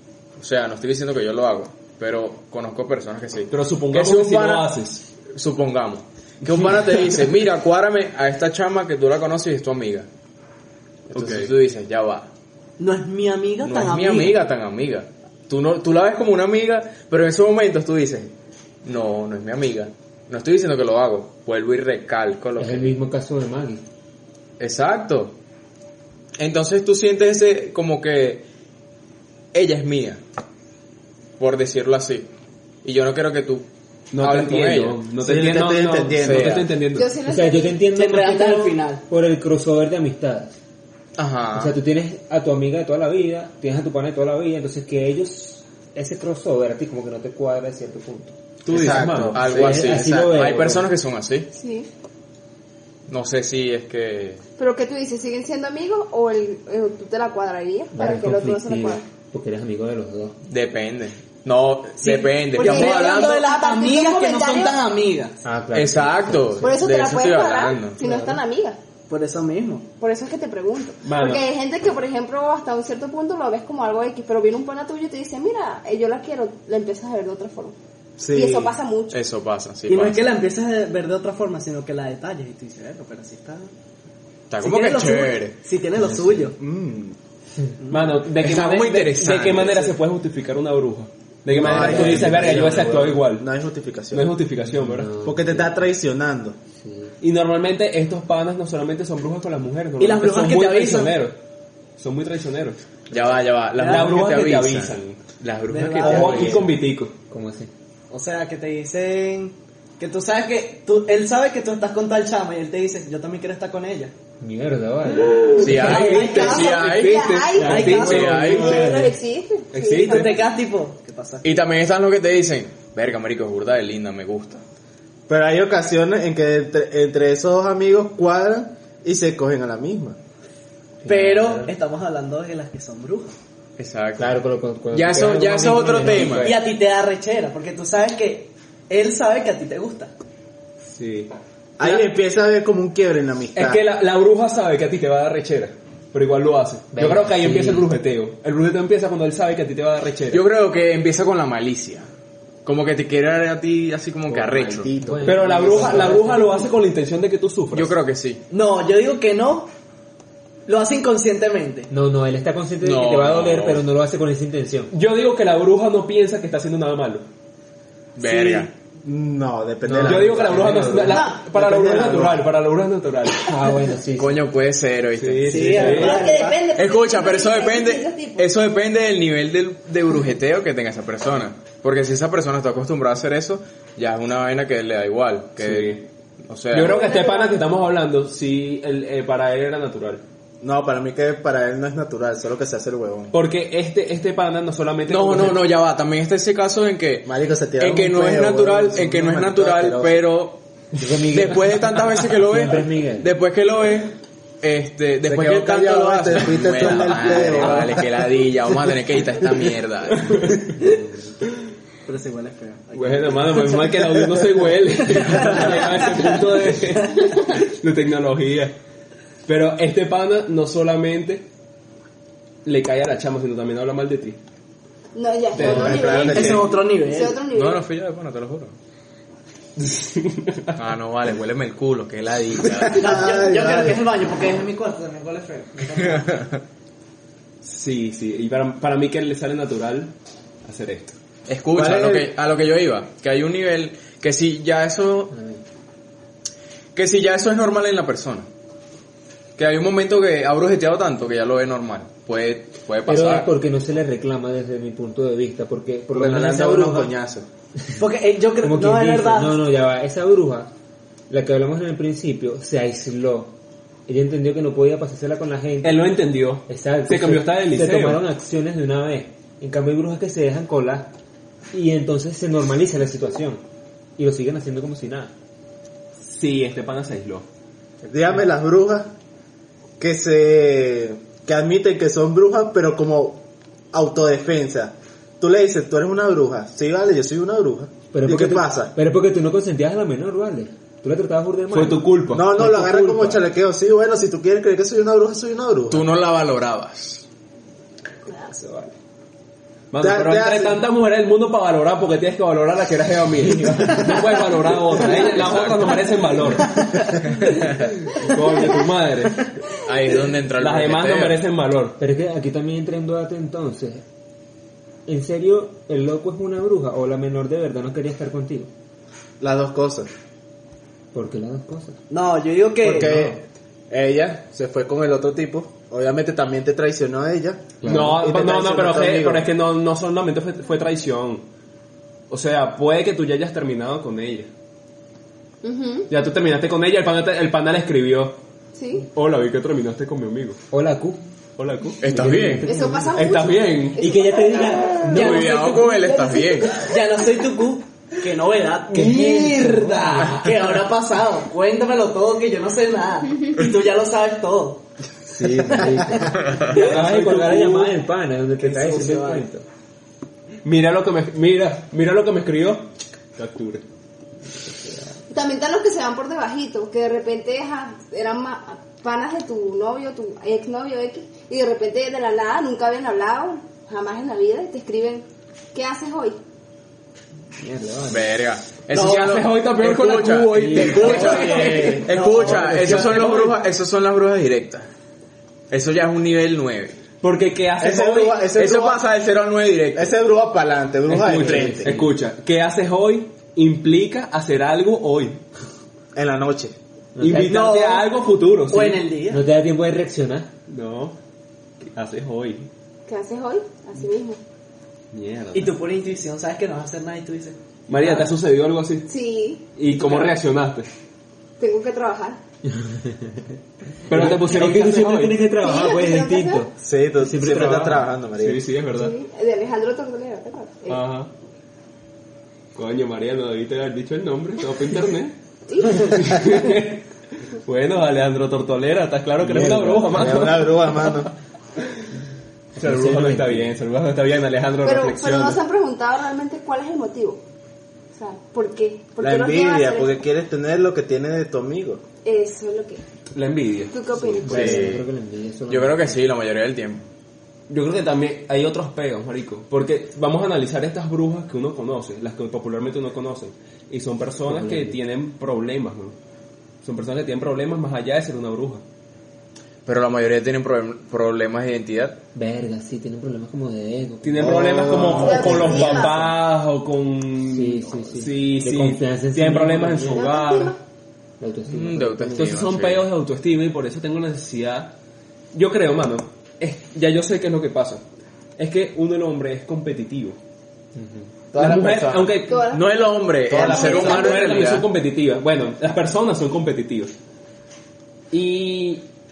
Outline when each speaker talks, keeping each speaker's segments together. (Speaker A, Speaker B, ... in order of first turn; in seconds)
Speaker A: 0.4-4.7, 5.2-10.1, 11.1-12.3, 13.6-18.3, 18.8-22.9, 24.6-25.3, 26.4-28.4, 29.5-30.2, 31.4-32.3, 32.8-33.6, 34.2-35.0, 36.1-36.7, 41.2-41.7, 48.7-51.5, 53.1-54.4, 60.5-63.4, 65.7-68.0, 79.1-80.3, 84.5-85.5, 88.4-89.9, 103.1-106.3, 115.5-117.2, 118.1-118.7, 121.4-124.6, 133.8-134.3, 134.9-136.5, 150.3-152.1, 152.6-154.9, 157.7-158.4, 162.8-163.8, 168.2-168.7, 174.2-175.6, 176.7-186.9, 195.1-200.6, 201.3-210.4, 227.5-228.7, 230.7-233.1, 236.0-236.6, 241.5-245.3, 246.9-248.4, 249.6-253.5, 295.9-297.2, 305.3-306.1, 307.2-308.0, 309.8-311.4, 342.0-342.7, 345.1-346.7, 356.4-356.8, 378.1-384.9, 385.7-387.0, 388.5-390.1, 444.4-445.1, 445.7-447.1, 459.8-462.2, 471.7-473.1, 482.7-484.9
Speaker B: 3.5-5.0, 6.4-7.1, 11.1-11.5, 34.1-37.1, 48.6-49.9, 71.0-71.5, 87.9-93.4, 94.1-95.1, 97.2-101.4, 102.0-102.8, 103.8-105.2, 106.1-107.1, 115.8-119.1, 119.7-120.3, 140.9-142.0, 143.5-150.4, 154.3-157.9, 164.9-167.2, 170.0-173.5, 175.2-176.2, 185.6-186.0, 186.7-190.2, 193.3-195.6, 210.1-210.8, 212.9-218.7, 219.5-221.5, 222.6-224.4, 225.5-226.3, 229.8-230.7, 237.6-240.1, 240.6-241.1, 265.8-268.2, 276.2-277.4, 291.7-292.7, 299.9-306.7, 308.3-309.6, 310.6-312.0, 327.8-331.4, 332.3-334.5, 336.1-338.4, 339.1-340.6, 341.6-342.0, 343.1-344.0, 356.8-357.9, 360.6-363.8, 378.9-381.8, 382.6-383.6, 387.2-388.5, 391.1-395.4, 397.2-399.0, 400.7-401.2, 401.8-402.7, 405.1-405.8, 407.9-409.1, 409.7-410.9, 414.1-415.4, 418.3-419.1, 420.9-421.3, 422.7-425.4, 426.1-430.8, 432.8-435.6, 443.3-443.9, 447.7-456.1, 456.8-458.8, 464.2-470.8, 472.3-474.9, 475.5-478.0, 478.6-480.4, 481.6-482.7, 483.5-487.1, 488.3-489.0
Speaker C: 12.8-14.4, 37.9-39.0, 62.0-65.3, 69.1-69.9, 79.9-83.7, 84.6-86.6, 87.8-88.1, 100.0-101.2, 103.8-104.1, 105.7-106.7, 108.1-114.1, 116.0-116.9, 117.7-118.8, 119.9-121.5, 131.0-133.3, 136.1-140.1, 158.5-159.7, 160.7-161.9, 175.5-176.6, 212.0-214.4, 215.1-216.3, 226.3-227.5, 232.8-236.2, 258.0-259.6, 306.5-307.2, 322.1-323.3, 345.1-345.8, 346.8-354.8, 355.4-356.1, 358.6-359.5, 381.3-382.7, 397.3-398.1, 398.7-399.4, 405.5-407.6
Speaker D: 22.6-23.8, 37.2-40.6, 41.5-48.3, 49.5-50.9, 57.9-60.4, 65.4-67.1, 68.0-68.4, 86.0-86.5, 91.6-93.2, 94.6-95.8, 96.8-97.1, 106.0-106.7, 107.3-107.7, 114.4-116.2, 117.6-119.1, 131.0-131.7, 134.2-136.6, 146.9-147.9, 155.0-156.7, 161.9-164.9, 169.8-171.2, 173.4-174.4, 175.5-176.2, 200.9-201.9, 202.4-203.3, 245.3-245.6, 253.1-257.1, 258.6-260.7, 261.3-263.5, 264.1-271.1, 271.7-273.6, 274.2-275.3, 288.1-292.0, 292.6-293.4, 298.4-298.9, 303.6-304.1, 312.0-314.0, 315.1-318.7, 321.1-322.0, 327.8-328.2, 340.7-341.2, 342.0-343.2, 344.0-345.4, 348.9-350.5, 355.2-359.6, 364.6-365.1, 377.6-378.3, 380.5-382.1, 391.4-392.1, 397.1-397.6, 399.3-400.5, 412.8-413.4, 414.1-418.1, 429.4-430.5, 432.8-433.7, 444.1-446.2, 454.4-455.0, 462.3-466.3, 467.5-470.3, 471.4-472.5, 480.9-481.3
Speaker E: 35.2-36.5, 48.7-50.1, 78.2-78.7, 86.6-87.2, 91.5-94.3, 95.2-96.6, 125.3-130.2, 141.8-143.8, 154.7-156.2, 169.0-172.5, 190.6-193.3, 197.2-200.2, 205.2-208.0, 225.5-226.8, 233.0-234.0, 241.8-242.3, 256.1-257.4, 278.1-279.1, 280.0-283.4, 283.9-288.9, 292.3-296.1, 300.0-300.8, 319.4-320.1, 322.8-329.5, 387.8-389.0, 389.9-391.9, 396.1-396.7, 416.8-418.6, 430.1-431.3, 439.2-442.0, 481.5-482.3, 483.5-483.8
Speaker F: 36.9-37.9, 51.5-51.9, 54.6-59.0, 62.6-64.8, 66.6-68.8, 70.0-77.7, 78.3-79.2, 115.6-120.5, 171.1-171.4, 175.9-178.5, 186.8-187.6, 225.1-227.8, 335.6-336.1, 338.7-339.1, 342.6-344.7, 345.3-347.4, 365.3-376.4, 403.1-404.4, 409.1-409.6, 411.6-412.4, 415.6-416.7, 418.9-421.0, 425.7-426.6, 434.8-437.4, 438.1-440.1, 442.2-443.0, 443.9-444.7, 465.1-466.3, 470.1-470.8, 482.4-483.1, 483.7-484.2